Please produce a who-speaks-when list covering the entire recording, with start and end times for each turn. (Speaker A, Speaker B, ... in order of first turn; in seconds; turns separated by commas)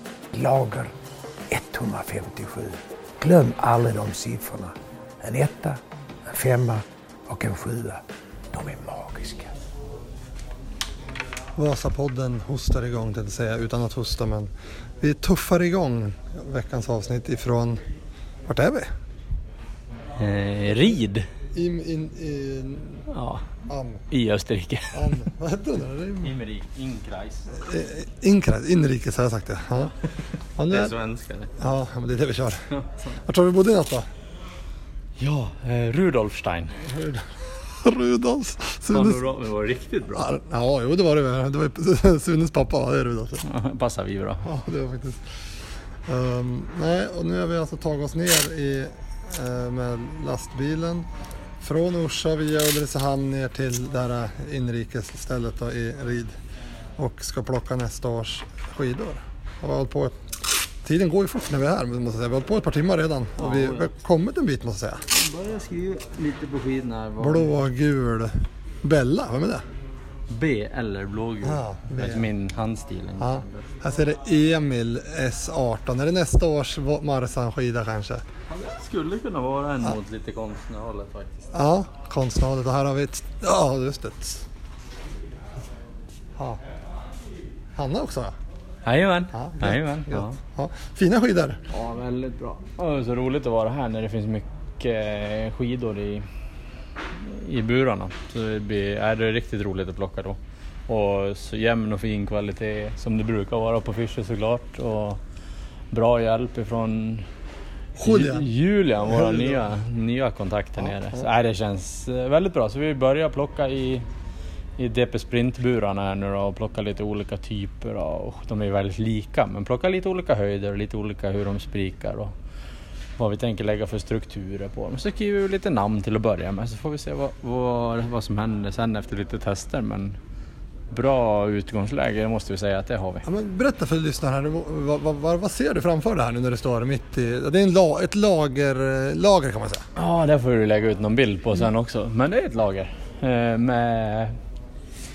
Speaker A: 0.3-0.9, Speaker A: 1.5-8.0, Speaker A: 8.5-9.5, Speaker B: 11.6-17.8, Speaker B: 18.5-18.9, Speaker C: 20.2-21.3, Speaker B: 21.5-23.0, Speaker C: 23.1-23.5, Speaker B: 23.7-24.0, Speaker C: 24.1-25.2, Speaker B: 24.9-26.3, Speaker C: 26.2-27.5, Speaker B: 27.5-30.0, Speaker B: 30.6-30.9, Speaker C: 30.7-31.5, Speaker B: 31.6-32.7, Speaker C: 32.7-33.2, Speaker B: 33.2-34.1, Speaker C: 35.2-36.8, Speaker B: 36.9-39.2, Speaker C: 38.9-40.3, Speaker B: 40.1-43.4, Speaker C: 43.4-44.5, Speaker B: 44.4-45.3, Speaker B: 46.1-51.1, Speaker B: 51.6-56.4, Speaker B: 57.0-60.2, Speaker B: 60.8-65.0, Speaker C: 63.4-63.9, Speaker C: 65.1-67.5, Speaker B: 67.2-69.6, Speaker C: 70.3-73.7, Speaker B: 71.4-72.3, Speaker B: 73.2-78.2, Speaker C: 78.5-81.5, Speaker B: 81.5-84.5, Speaker B: 87.8-88.3, Speaker C: 88.8-90.4, Speaker B: 89.3-91.6, Speaker C: 91.7-96.2, Speaker C: 97.1-105.2, Speaker C: 105.9-107.3, Speaker B: 108.0-108.5, Speaker C: 108.0-114.0, Speaker B: 109.0-109.7, Speaker B: 110.8-111.3, Speaker C: 114.8-122.3, Speaker C: 123.2-130.2, Speaker C: 130.9-133.2, Speaker B: 133.2-139.9, Speaker C: 139.9-144.4